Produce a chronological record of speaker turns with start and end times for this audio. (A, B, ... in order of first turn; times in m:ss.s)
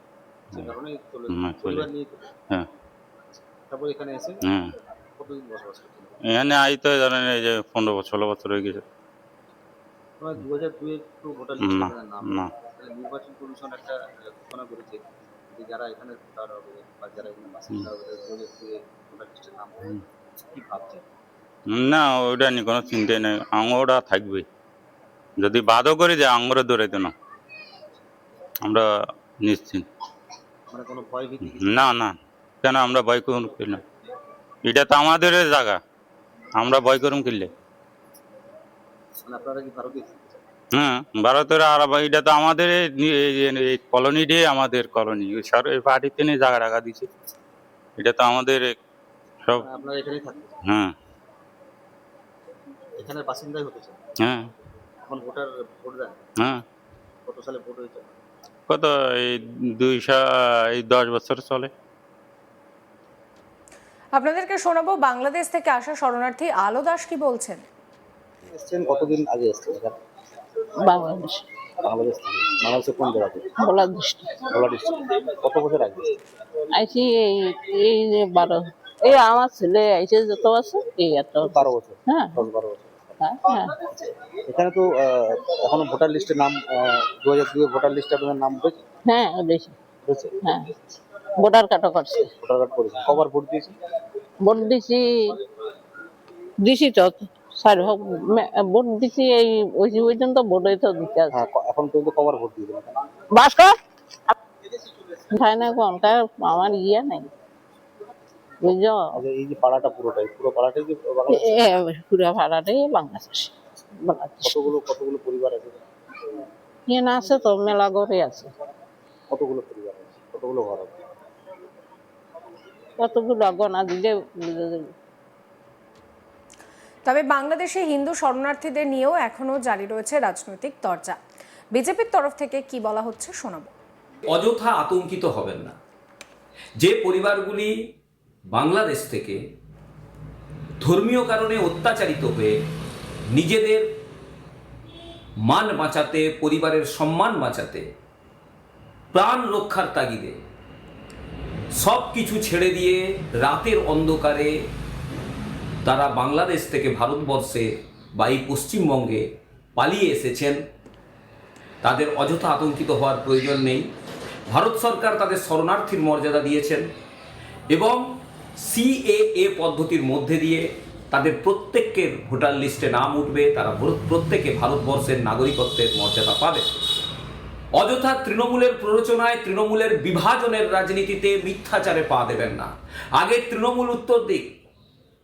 0:00.6-0:02.2 A
0:01.3-0:01.9 B
0:03.7-0:04.4 A
0:04.4-0:04.7 B
0:05.2-0:06.2 A
0:06.3-0:08.8 B
0:10.2-0:20.0 A
0:11.6-0:12.5 B
0:20.5-0:21.0 A
0:21.7-0:24.5 B
0:25.4-0:27.1 B
0:29.4-0:29.8 B
0:30.7-0:31.8 A
0:31.5-0:33.8 B
0:34.6-0:35.8 B
0:36.6-0:37.5 B
0:39.2-0:40.4 A
0:40.7-0:47.1 B
0:48.0-0:48.8 B
0:49.6-0:50.6 A
0:50.7-0:50.9 B
0:53.0-0:54.0 A
0:55.1-0:56.2 A
0:57.3-0:58.2 A
0:58.7-1:00.2 B
1:00.8-1:01.7 B
1:04.1-1:07.6 C
1:08.5-1:10.0 A
1:10.8-1:11.5 D
1:11.8-1:13.5 A
1:13.6-1:14.4 D
1:14.4-1:16.2 A
1:16.7-1:22.4 D
1:21.4-1:23.2 A
1:23.2-1:23.7 D
1:24.5-1:28.8 A
1:29.1-1:29.8 D
1:30.0-1:30.4 A
1:30.4-1:30.7 D
1:31.4-1:32.3 D
1:32.3-1:33.8 A
1:34.4-1:35.4 D
1:36.6-1:41.5 D
1:41.3-1:42.9 A
1:43.3-1:44.3 D
1:45.3-1:47.3 D
1:48.6-1:49.2 D
1:49.2-1:51.6 A
1:51.3-1:54.7 D
1:54.4-1:55.8 A
1:56.9-1:58.5 D
1:59.3-2:01.0 A
2:03.0-2:04.9 D
2:07.0-2:11.2 C
2:11.7-2:13.7 C
2:14.3-2:15.7 E
2:16.8-2:17.7 E
2:18.5-2:19.4 E
2:20.8-2:22.5 E
2:23.3-2:23.8 E
2:25.4-2:27.8 E
2:29.1-2:30.4 E
2:31.7-2:34.5 E
2:35.8-2:39.2 E
2:39.8-2:40.6 E
2:41.8-2:43.8 E
2:44.5-2:46.9 E
2:47.7-2:48.0 E
2:48.6-2:56.7 E
2:57.8-3:04.5 E